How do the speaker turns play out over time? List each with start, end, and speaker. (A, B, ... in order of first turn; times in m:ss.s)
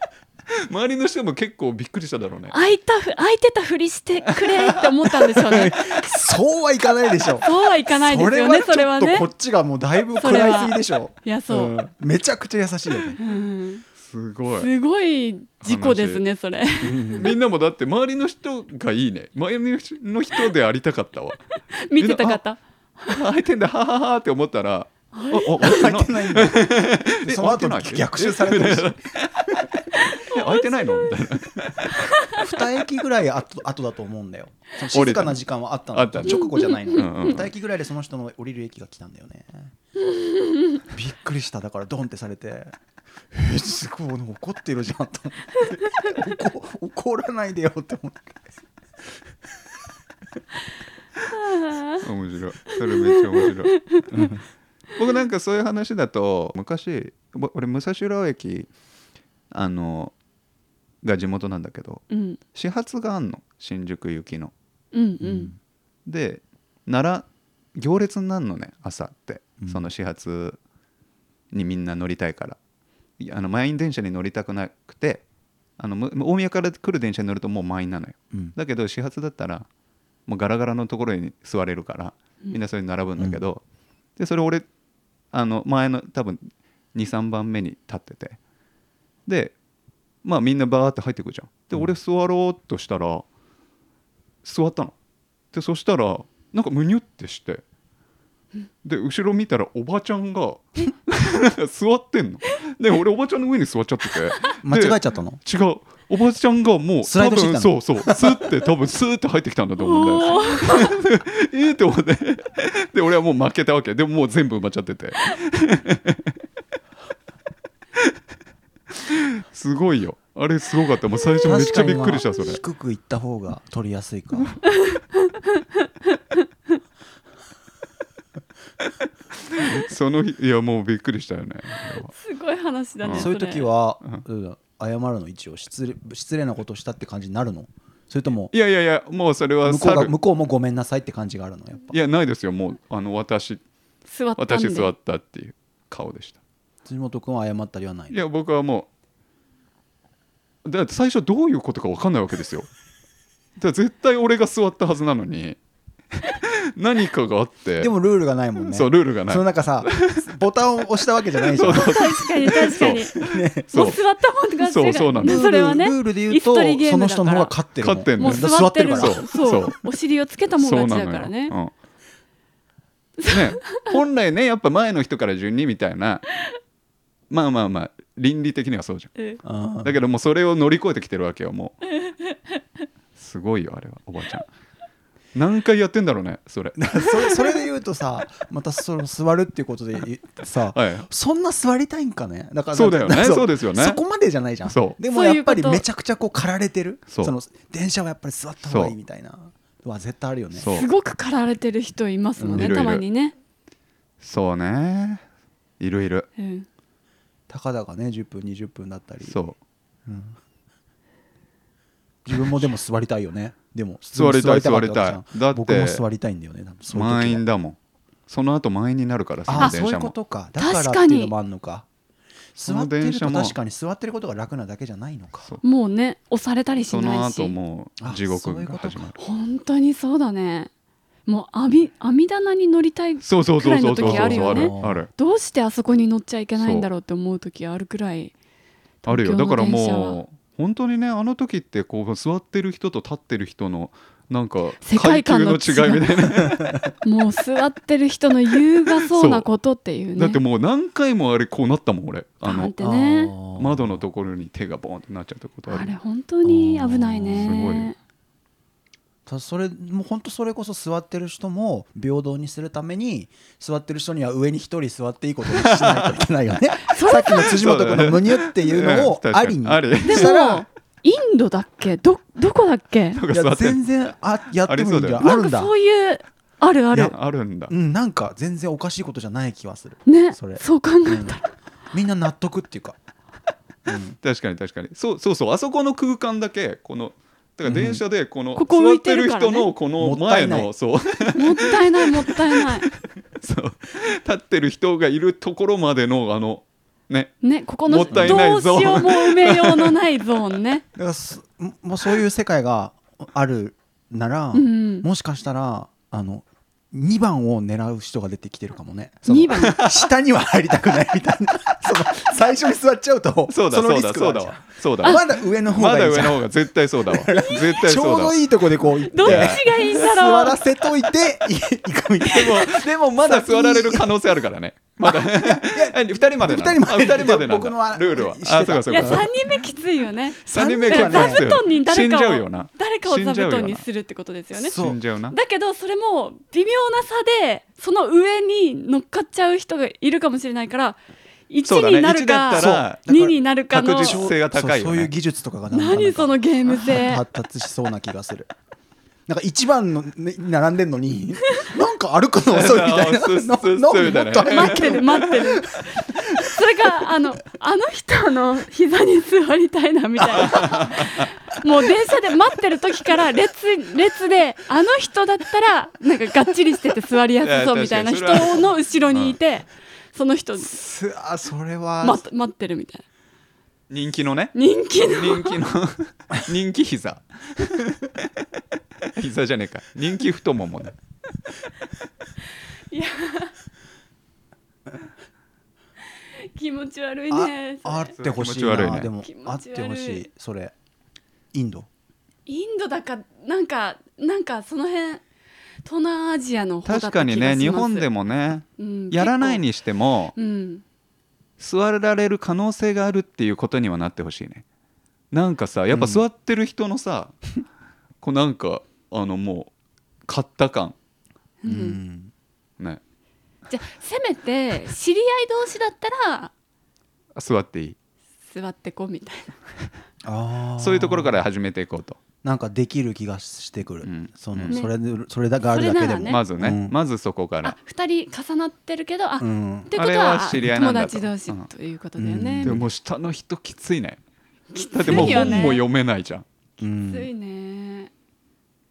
0:00.6-0:02.6 A
0:02.5-0:06.1 B
0:04.3-0:04.8 A
0:05.4-0:13.2 C
0:07.4-0:09.3 B
0:10.2-0:11.7 B
0:13.2-0:13.8 B
0:14.0-0:14.7 A
0:14.5-0:17.3 B
0:15.6-0:16.2 A
0:16.8-0:17.3 C
0:17.2-0:21.4 A
0:21.7-0:23.2 B
0:22.0-0:22.4 A
0:23.0-0:32.1 A
0:25.1-0:25.8 B
0:25.6-0:29.0 C
0:30.1-0:31.1 B
0:31.9-0:32.4 B
0:32.3-0:39.7 C
0:34.9-0:35.4 A
0:35.9-0:37.4 A
0:36.2-0:37.3 B
0:40.0-0:40.8 B
0:40.9-0:42.8 C
0:43.3-0:48.4 C
0:51.3-0:52.0 B
0:52.0-0:54.3 A
0:52.7-0:54.0 B
0:54.1-0:54.4 C
0:55.0-0:58.7 A
0:59.5-1:00.1 A
1:01.0-1:04.5 A
1:02.1-1:02.4 B
1:04.9-1:05.5 B
1:05.2-1:05.5 C
1:06.0-1:10.6 A
1:11.5-1:12.6 A
1:13.2-1:15.2 A
1:15.8-1:19.7 A
1:20.3-1:23.6 A
1:24.2-1:24.6 A
1:25.3-1:28.4 A
1:29.2-1:29.6 A
1:30.2-1:33.2 A
1:34.4-1:34.9 A
1:35.5-1:37.6 A
1:38.8-1:56.3 A
1:44.6-1:45.4 C
1:47.0-1:48.5 C
1:49.8-1:51.0 B
1:59.0-2:02.6 A
2:01.4-2:04.6 C
2:04.8-2:05.6 B
2:09.5-2:12.1 A
2:12.1-2:13.7 B
2:13.0-2:13.3 A
2:13.1-2:18.5 C
2:18.5-2:20.1 A
2:19.6-2:21.9 C
2:21.9-2:23.6 A
2:24.1-2:24.9 B
2:24.4-2:26.4 A
2:26.8-2:28.1 C
2:28.1-2:28.9 A
2:30.6-2:32.7 A
2:33.6-2:35.6 A
2:36.1-2:37.9 A
2:37.8-2:43.7 C
2:38.6-2:40.3 A
2:41.5-2:44.0 A
2:41.7-2:43.1 B
2:43.7-2:47.5 B
2:44.6-2:45.4 A
2:45.2-2:49.6 C
2:47.8-2:49.9 A
2:48.2-2:51.6 B
2:50.5-2:51.7 A
2:53.2-2:54.0 B
2:53.2-2:56.2 A
2:57.3-2:59.1 A
2:59.4-3:00.0 C
2:59.8-3:01.8 A
3:02.0-3:02.3 B
3:03.2-3:04.5 A
3:05.3-3:07.5 A
3:06.8-3:20.7 C
3:10.7-3:11.1 A
3:12.7-3:14.0 A
3:14.6-3:15.0 A
3:15.1-3:15.8 B
3:18.6-3:18.9 A
3:20.5-3:20.9 A
3:20.7-3:23.3 B
3:22.4-3:22.8 C
3:22.5-3:23.0 A
3:24.2-3:25.2 A
3:25.8-3:26.3 A
3:26.4-3:26.7 B
3:27.5-3:29.4 C
3:29.2-3:29.6 A
3:30.0-3:30.4 C
3:32.2-3:37.4 C
3:34.1-3:36.0 A
3:36.9-3:40.1 A
3:39.5-3:41.9 C
3:40.6-3:41.3 B
3:42.5-3:45.5 C
3:42.6-3:43.5 A
3:45.6-3:47.5 B
3:46.9-3:49.2 A
3:48.0-3:49.1 C
3:49.2-3:50.7 B
3:51.2-3:58.3 B
3:53.2-3:55.1 A
3:54.0-3:55.0 C
3:56.6-3:56.9 A
3:59.0-4:00.2 B
3:59.0-4:06.7 A
4:04.8-4:06.0 B
4:07.0-4:10.4 B
4:09.1-4:09.5 A
4:10.2-4:12.7 A
4:12.4-4:13.4 B
4:12.8-4:14.0 C
4:13.5-4:16.0 A
4:15.7-4:18.0 B
4:16.4-4:17.9 C
4:17.3-4:17.9 A
4:19.2-4:30.6 C
4:25.5-4:26.2 A
4:26.9-4:27.5 B
4:27.4-4:30.3 A
4:30.0-4:33.2 B
4:33.1-4:33.8 A
4:33.3-4:35.7 C
4:34.6-4:35.2 A
4:35.2-4:37.1 B
4:37.0-4:37.7 A
4:37.7-4:41.4 C
4:40.0-4:41.5 B
4:41.9-4:43.0 C
4:43.8-4:44.2 C
4:44.2-5:00.0 A
4:47.6-4:48.0 C
4:48.6-4:49.7 B
4:50.0-4:50.7 C
4:51.3-4:52.9 B
4:57.4-5:00.8 B
4:58.1-4:58.5 C
5:01.0-5:16.5 C
5:04.5-5:05.1 B
5:09.3-5:09.8 B
5:09.6-5:10.0 A
5:13.5-5:18.4 A
5:17.0-5:24.1 C
5:17.3-5:17.7 B
5:19.0-5:20.6 B
5:19.2-5:19.7 A
5:22.2-5:29.3 A
5:25.0-5:29.3 C
5:28.9-5:34.8 B
5:30.4-5:33.8 A
5:30.5-5:31.5 C
5:34.6-5:35.0 C
5:34.7-5:35.4 A
5:35.3-5:44.3 B
5:41.6-5:43.0 A
5:42.5-5:43.4 C
5:43.7-5:45.1 A
5:44.0-5:48.5 C
5:45.7-5:47.2 B
5:49.3-5:56.6 C
5:52.5-5:55.3 A
5:54.0-6:10.8 B
6:00.4-6:00.6 C
6:00.4-6:01.3 A
6:07.4-6:09.4 A
6:10.6-6:12.2 C
6:12.0-6:13.0 B
6:13.9-6:18.3 A
6:14.5-6:15.6 B
6:19.0-6:20.9 A
6:22.9-6:23.5 B
6:26.4-6:28.2 B
6:27.3-6:30.7 C
6:28.2-6:29.1 A
6:29.2-6:30.2 B
6:31.5-6:31.9 C
6:32.5-6:35.2 B
6:35.8-6:38.1 B
6:36.8-6:40.4 A
6:38.8-6:39.6 B
6:40.4-6:40.8 B
6:41.6-6:44.6 A
6:45.3-6:47.5 A
6:45.9-6:46.2 C
6:48.2-6:49.7 A
6:50.2-6:50.9 A
6:51.6-6:52.0 B
6:51.6-6:52.3 C
6:53.7-6:56.5 B
6:57.3-6:58.0 A
6:58.5-6:59.6 B
7:00.2-7:01.4 C
7:00.8-7:02.2 A
7:02.4-7:06.9 C
7:04.0-7:04.8 A
7:05.6-7:06.4 B
7:06.3-7:07.8 A
7:07.6-7:12.8 B
7:09.4-7:09.9 C
7:09.9-7:11.7 A
7:12.2-7:12.8 C
7:12.6-7:14.2 A
7:14.7-7:15.8 B
7:14.8-7:16.4 A
7:15.0-7:15.6 C
7:16.8-7:17.3 C
7:16.8-7:18.1 B